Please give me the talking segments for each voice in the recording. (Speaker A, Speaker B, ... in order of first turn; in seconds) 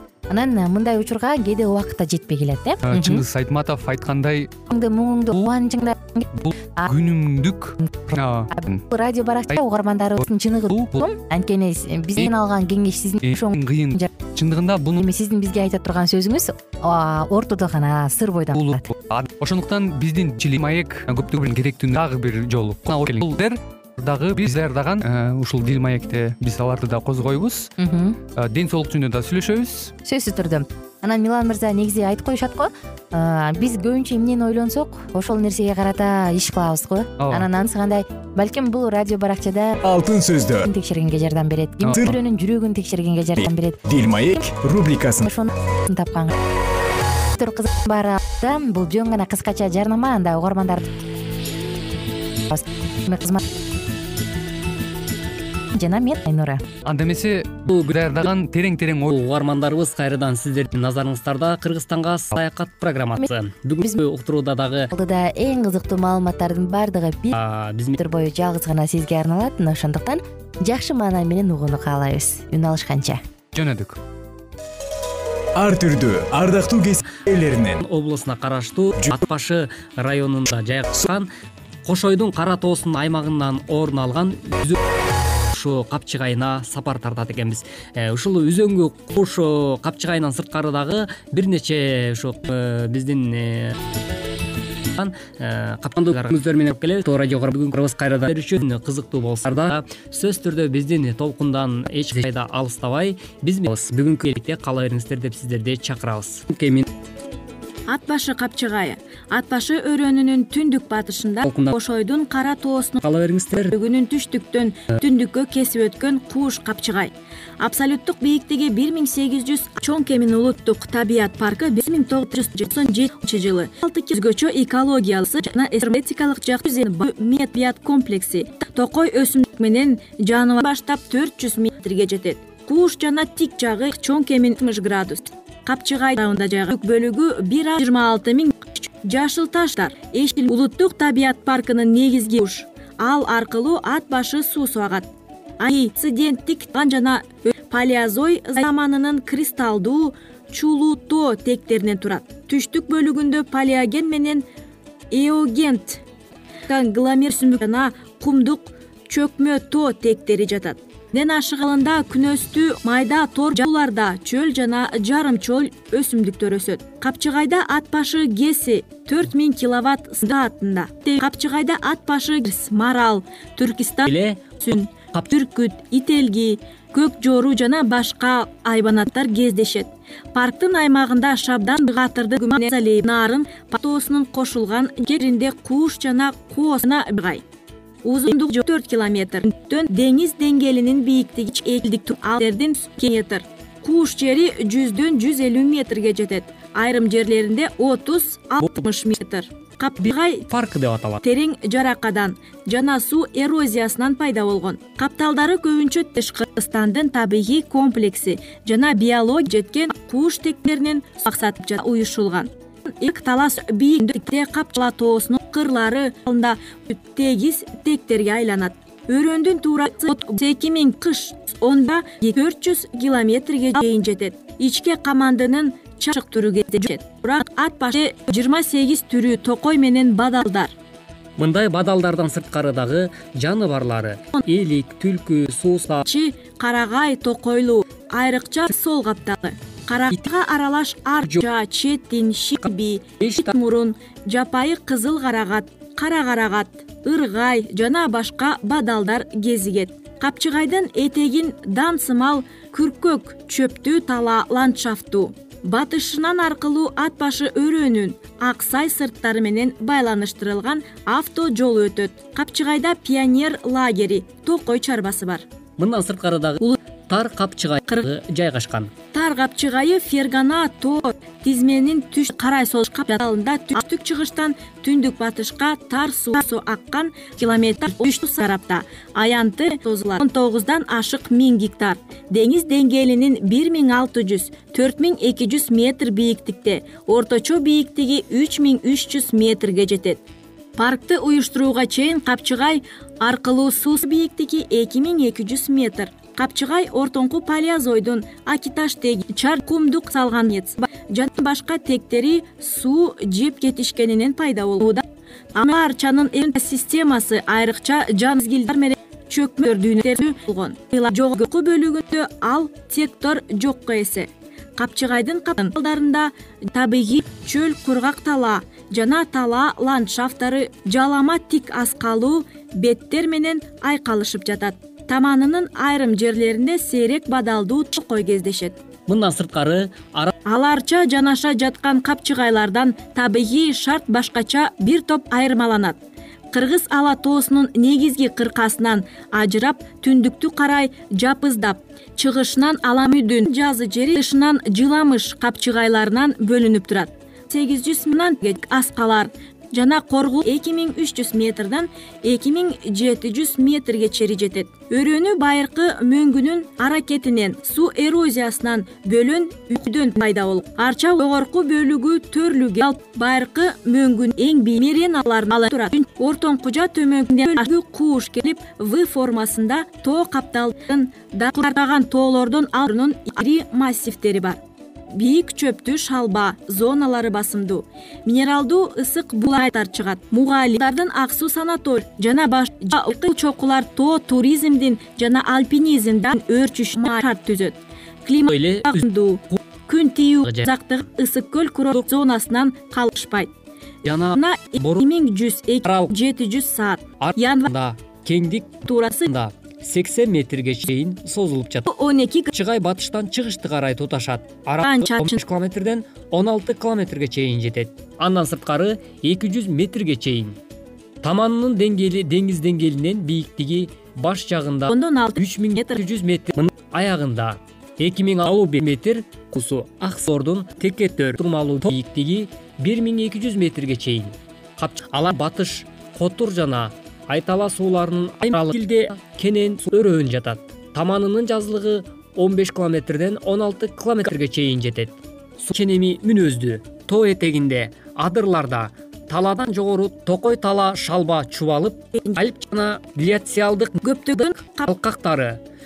Speaker A: 0.3-3.2, 4.7-6.9, 7.8-14.1, 15.0-18.9, 27.8-28.2, 30.0-39.8, 40.7-43.8, 45.2-46.3, 47.4-50.9, 52.5-53.4, 55.7-56.6, 64.9-67.4, 68.0-73.2
Speaker B: 2.8-4.5, 6.4-8.8, 10.7-11.1, 13.2-15.0, 18.5-27.7, 28.4-29.9, 37.2-37.5, 56.9-59.2, 73.5-74.0
Speaker C: 39.8-40.7, 43.4-45.3, 75.6-77.8
Speaker D: 57.7-58.0, 59.1-64.9, 67.3-68.0, 77.8-81.3, 81.8-84.8, 85.5-93.8, 95.0-106.9, 111.5-111.8, 113.0-113.8, 174.1-174.4, 200.0-201.2, 231.4-236.1, 243.2-243.5, 265.8-268.9, 329.1-330.3, 388.5-389.6, 394.0-395.1, 395.9-396.1, 397.2-401.9, 402.5-410.6, 411.2-445.6
Speaker E: 107.9-113.0, 113.6-145.1, 145.6-154.4, 155.1-156.0, 156.7-187.4, 188.0-200.5, 201.2-230.7, 236.0-265.4, 269.1-290.2, 290.8-305.0, 305.6-328.8, 330.5-336.0, 336.5-374.6, 375.1-393.5, 394.3-397.7, 398.9-399.3, 401.9-402.5, 404.8-405.4, 414.9-416.0, 444.0-444.9